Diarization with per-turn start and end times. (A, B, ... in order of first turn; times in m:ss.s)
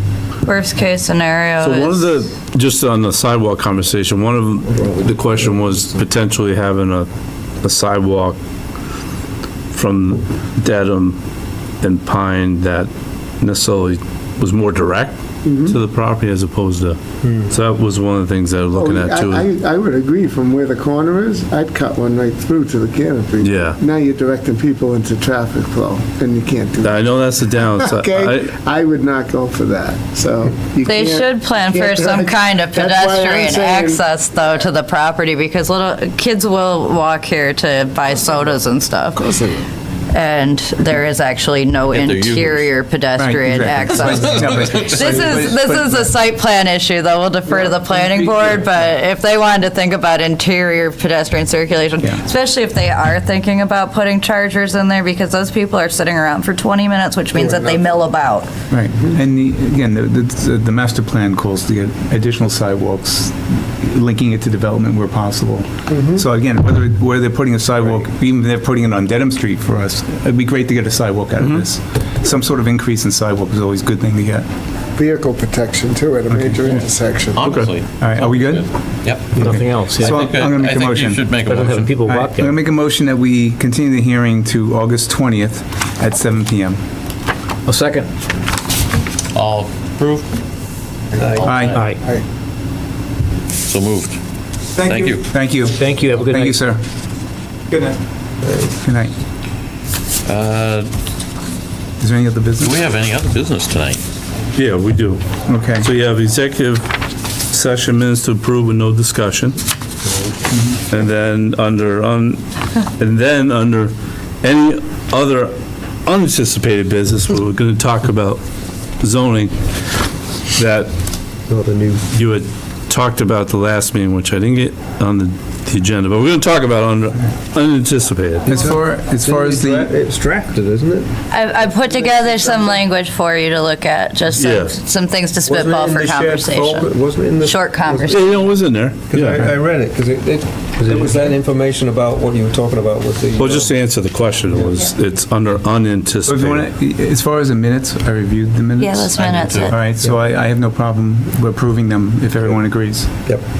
0:00.4-0:02.1 A
0:01.6-0:07.1 B
0:04.8-0:06.0 C
0:07.6-0:08.4 B
0:09.7-0:11.2 B
0:11.8-0:12.9 B
0:13.4-0:19.5 B
0:15.4-0:15.8 D
0:17.2-0:17.5 C
0:18.8-0:34.6 D
0:23.4-0:23.8 B
0:26.8-0:28.5 B
0:30.8-0:39.2 A
0:39.1-0:39.7 D
0:40.1-0:58.5 A
0:41.9-0:42.7 E
0:43.2-0:46.1 F
0:44.1-0:45.1 E
0:47.7-0:48.7 F
0:57.3-0:58.1 D
0:58.7-1:14.5 F
1:05.9-1:06.2 D
1:15.0-1:17.4 D
1:16.3-1:16.9 F
1:17.3-1:22.0 E
1:17.4-1:17.7 B
1:18.0-1:21.3 F
1:19.3-1:20.3 G
1:21.4-1:22.5 G
1:22.0-1:26.8 F
1:27.7-1:28.1 G
1:29.3-1:30.3 E
1:31.2-1:31.5 C
1:31.3-1:31.9 E
1:31.4-1:31.8 F
1:31.6-1:32.0 G
1:31.9-1:32.2 D
1:33.7-1:34.2 E
1:34.8-1:35.3 E
1:34.8-1:36.8 F
1:35.6-1:36.6 G
1:37.7-1:38.0 F
1:38.4-1:38.7 C
1:38.8-1:39.2 F
1:40.2-1:40.9 E
1:42.0-1:42.8 F
1:42.6-1:44.0 E
1:44.6-1:45.2 B
1:45.5-1:45.9 F
1:45.8-1:46.9 B
1:47.5-1:49.6 B
1:50.9-1:55.5 B
1:56.1-1:58.4 B
1:59.0-1:59.5 B
2:00.6-2:00.9 B
2:01.5-2:02.0 C
2:02.1-2:08.6 B
2:08.5-2:09.9 F
2:08.5-2:12.8 C
2:11.3-2:18.3 A
2:14.3-2:14.7 B
2:15.4-2:18.2 C
2:18.1-2:19.5 B
2:19.1-2:23.8 C
2:19.3-2:19.6 F
2:23.4-2:26.6 B
2:24.5-2:24.8 C
2:26.3-2:33.1 F
2:28.8-2:29.9 A
2:29.1-2:29.8 E